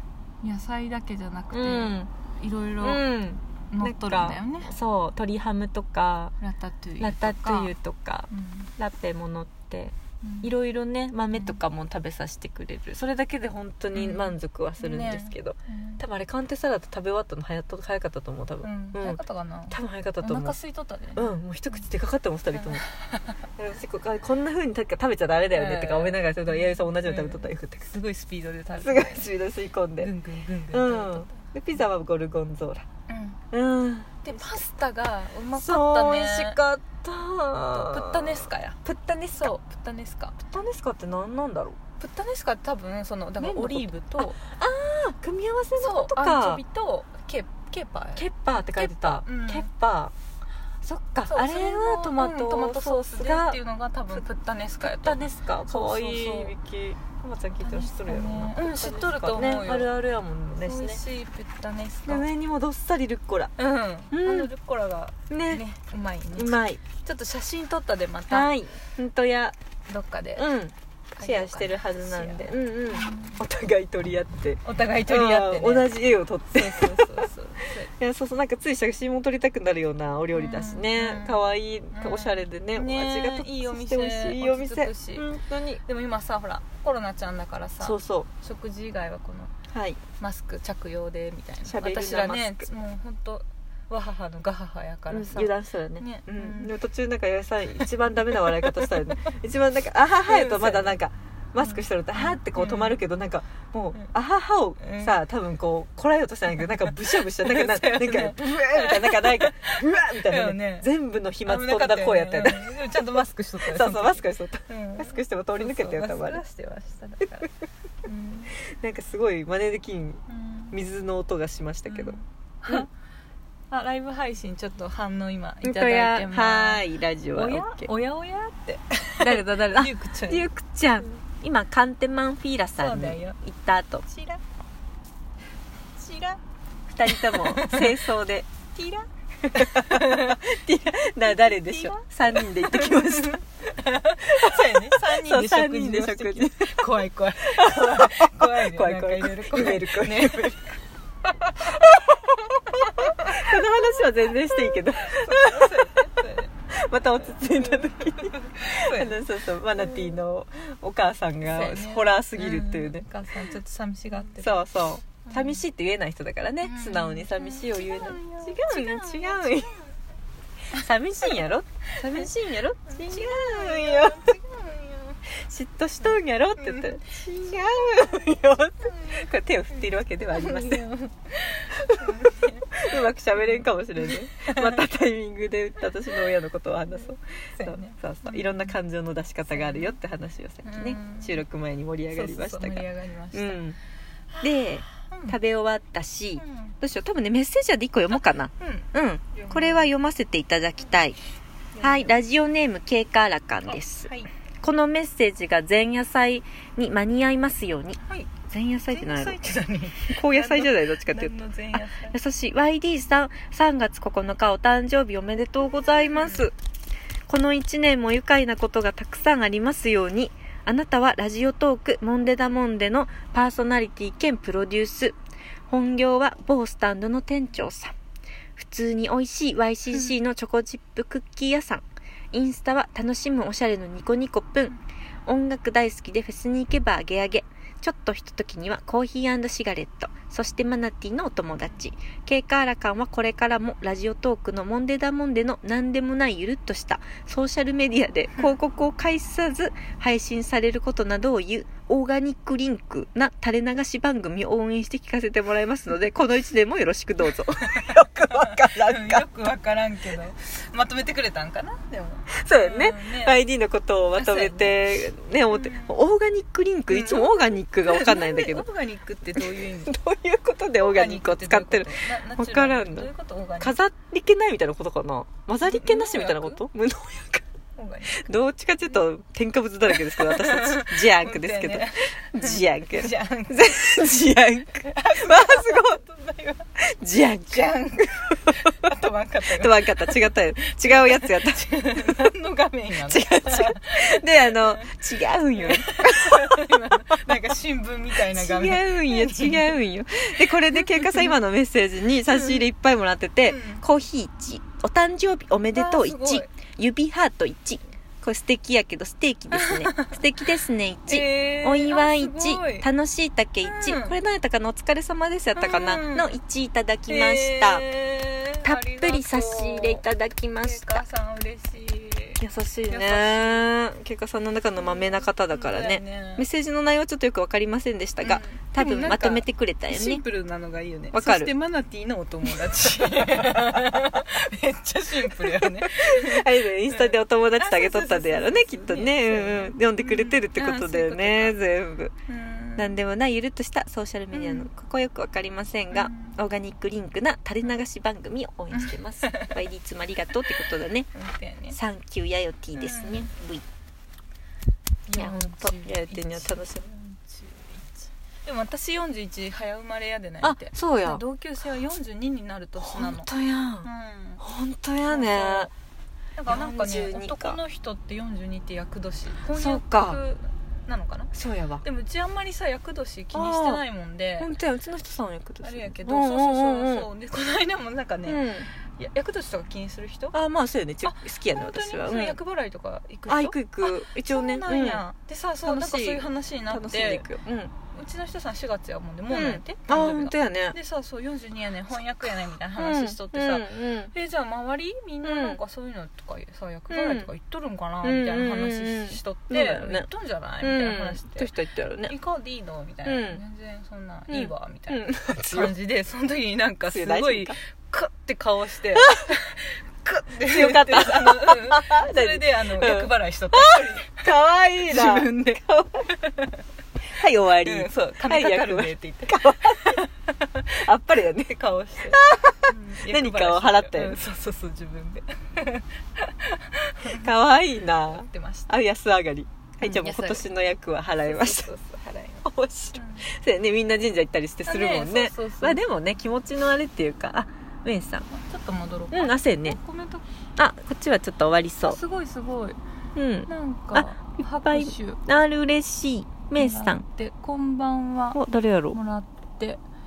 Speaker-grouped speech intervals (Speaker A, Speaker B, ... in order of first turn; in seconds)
Speaker A: 0.4-3.0, 3.7-4.8, 6.4-7.7, 8.3-8.7, 10.2-10.5, 11.3-11.6, 13.9-16.0, 18.6-21.8, 22.5-23.4, 25.5-29.3, 30.0-31.5, 33.1-33.4, 34.2-36.6, 37.7-38.8, 39.4-40.4, 42.0-44.4, 45.8-49.7, 51.3-56.5, 57.6-59.9, 60.6-62.3, 63.6-68.5, 69.9-70.5, 71.2-73.4, 74.6-75.9, 76.5-77.9, 80.3-81.4, 81.9-85.3, 85.8-89.5, 90.2-96.7, 98.4-99.3, 100.2-101.0, 101.6-103.0, 104.8-105.2, 106.6-110.9, 111.5-117.5, 118.0-118.5, 120.3-120.8, 121.8-122.9, 123.7-130.5, 132.7-133.4, 134.1-134.4, 136.0-136.4, 137.1-138.0, 138.7-140.4, 141.2-150.8, 151.3-153.5, 155.0-156.5, 157.4-159.2, 159.8-160.2, 161.4-164.7, 165.2-165.6, 166.6-169.8, 172.9-175.2, 176.0-178.2, 178.8-184.8, 187.5-188.8, 189.5-190.0, 190.6-191.4, 192.1-193.6, 194.3-195.4, 196.3-196.7, 198.1-199.9, 201.7-202.1, 203.7-204.3, 208.0-212.2, 216.1-216.4, 257.3-263.4, 264.1-266.0, 266.9-269.9, 270.8-273.8, 275.6-276.6, 277.8-278.3, 279.9-284.2, 284.8-286.7, 287.5-295.0, 295.6-299.8, 300.4-301.4, 302.3-302.6, 303.5-303.8, 305.7-306.5, 309.5-310.2, 311.1-312.9, 313.6-314.2, 315.5-316.3, 317.1-320.0, 320.6-323.7, 324.8-326.4, 328.2-341.6, 342.3-343.0, 344.3-344.7, 345.9-346.4, 348.7-349.6, 351.1-351.8, 352.8-353.3, 355.1-363.3, 363.8-364.4, 365.1-365.7, 366.4-374.5, 375.6-380.4, 381.0-387.3, 387.9-401.5, 402.1-414.3, 414.8-416.6, 417.6-420.8, 421.4-427.3, 428.0-428.7, 429.8-430.5, 431.2-433.3, 434.6-435.8, 438.3-440.3, 441.8-442.8, 443.5-445.2, 446.6-448.4, 448.9-449.8
Speaker B: 1.5-2.1, 2.8-6.3, 7.0-19.2, 19.7-20.6, 21.1-22.8, 23.6-27.9, 28.7-30.1, 30.7-32.8, 33.5-34.6, 35.5-39.5, 40.4-41.8, 43.4-46.6, 48.2-50.1, 50.8-53.6, 54.8-61.0, 62.0-63.5, 64.1-64.5, 65.3-65.6, 66.3-66.8, 68.3-69.5, 70.4-77.2, 77.8-85.8, 87.8-88.3, 89.7-90.0, 91.7-92.7, 95.1-113.0, 113.7-116.4, 118.7-122.8, 125.6-127.9, 129.2-134.1, 136.9-138.5, 139.5-143.4, 144.3-150.6, 153.2-156.1, 156.7-163.1, 164.3-169.7, 170.7-174.3, 175.4-180.9, 181.8-182.2, 182.8-193.8, 194.4-201.2, 201.8-204.1, 204.6-208.0, 208.5-209.4, 210.1-216.5, 217.3-225.2, 225.7-227.9, 228.6-234.7, 235.3-259.3, 262.4-268.7, 269.4-273.1, 273.6-277.4, 278.1-286.0, 286.8-288.6, 289.6-292.3, 293.1-297.3, 298.3-317.9, 318.6-321.0, 322.4-330.2, 331.1-331.5, 335.3-342.1, 342.8-351.1, 351.7-353.6, 355.1-356.9, 360.4-361.2, 362.8-363.9, 364.4-365.7, 366.5-367.6, 369.5-370.2, 371.3-371.8, 373.3-373.8, 374.4-377.1, 378.2-378.7, 380.3-382.4, 383.3-385.0, 385.6-387.7, 389.3-390.8, 392.8-394.1, 395.2-395.6, 396.9-397.3, 398.0-400.1, 400.6-402.1, 403.0-403.4, 404.3-405.7, 406.9-407.5, 408.9-409.2, 410.4-416.1, 417.1-420.0, 420.7-421.6, 422.1-424.2, 427.1-431.7, 432.4-438.3, 439.1-439.8, 440.6-442.0, 443.1-447.1, 448.3-449.0